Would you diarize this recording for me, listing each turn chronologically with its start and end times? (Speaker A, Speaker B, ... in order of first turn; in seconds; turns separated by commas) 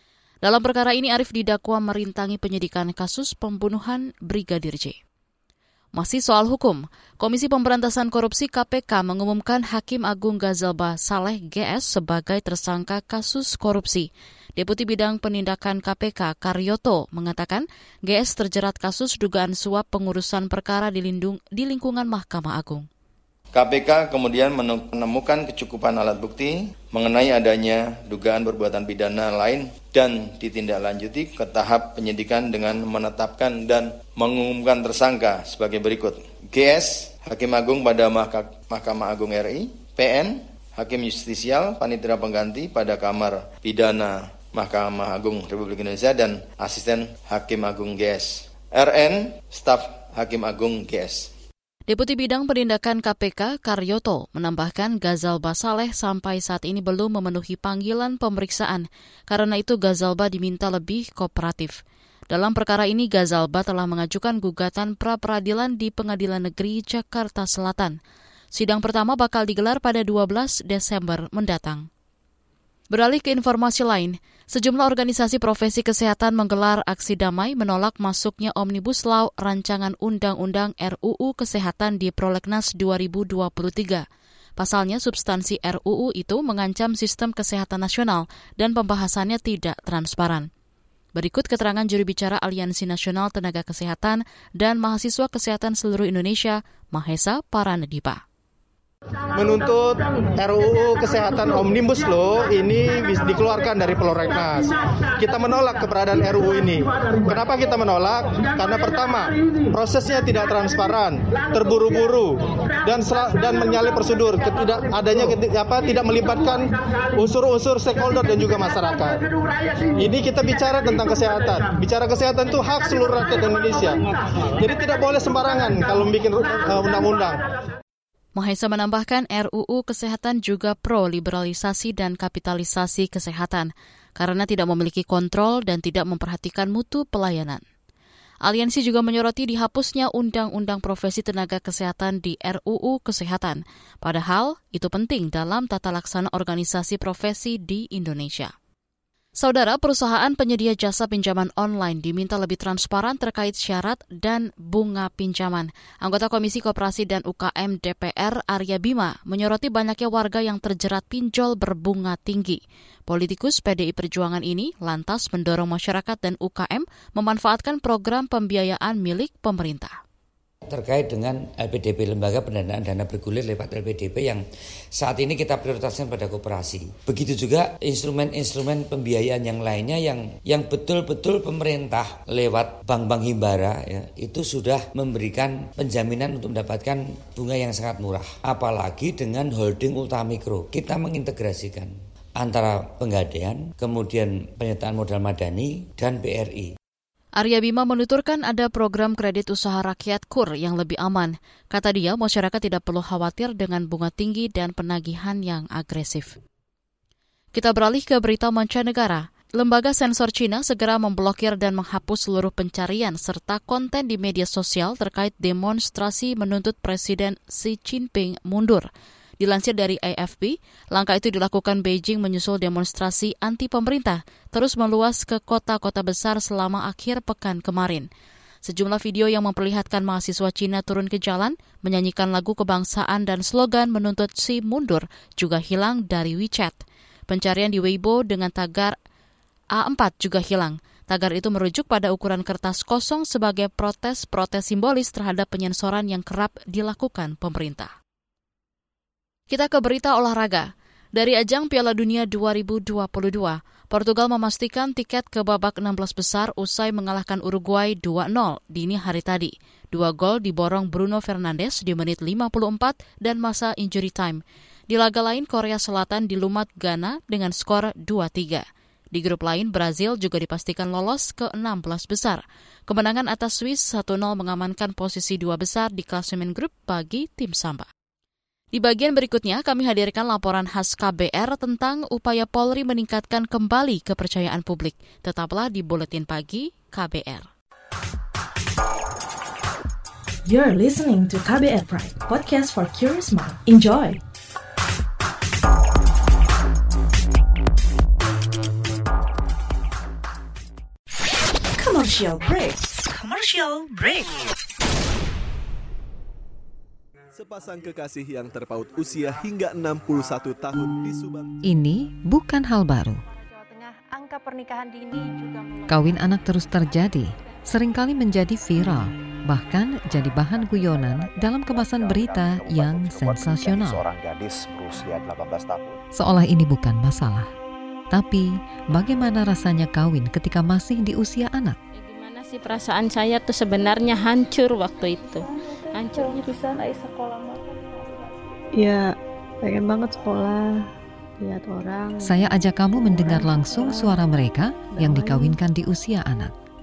Speaker A: 0.4-5.0, Speaker A: 6.0-22.9, Speaker B: 23.5-51.3, Speaker A: 51.9-68.0, Speaker A: 68.5-71.9, Speaker A: 72.9-84.0, Speaker A: 84.6-90.5, Speaker A: 91.2-98.2, Speaker C: 99.3-119.2, Speaker C: 120.0-124.0, Speaker C: 124.6-127.4, Speaker A: 128.4-137.6, Speaker A: 138.4-148.5, Speaker A: 149.4-169.9, Speaker D: 170.7-174.4, Speaker D: 175.0-196.7, Speaker A: 197.4-206.3, Speaker A: 207.6-218.9, Speaker A: 219.4-228.1, Speaker A: 228.7-238.9, Speaker A: 239.8-247.9, Speaker A: 249.5-277.9, Speaker A: 278.7-287.5, Speaker E: 290.4-294.2, Speaker E: 301.7-304.3, Speaker F: 307.4-311.6, Speaker G: 311.6-313.2, Speaker H: 313.6-315.8, Speaker G: 315.9-324.0, Speaker I: 321.0-326.0, Speaker G: 326.1-327.5, Speaker G: 328.1-331.8, Speaker J: 332.0-336.5, Speaker H: 335.2-338.3, Speaker K: 338.8-340.9, Speaker K: 341.4-344.3, Speaker G: 342.2-346.5, Speaker K: 345.1-345.6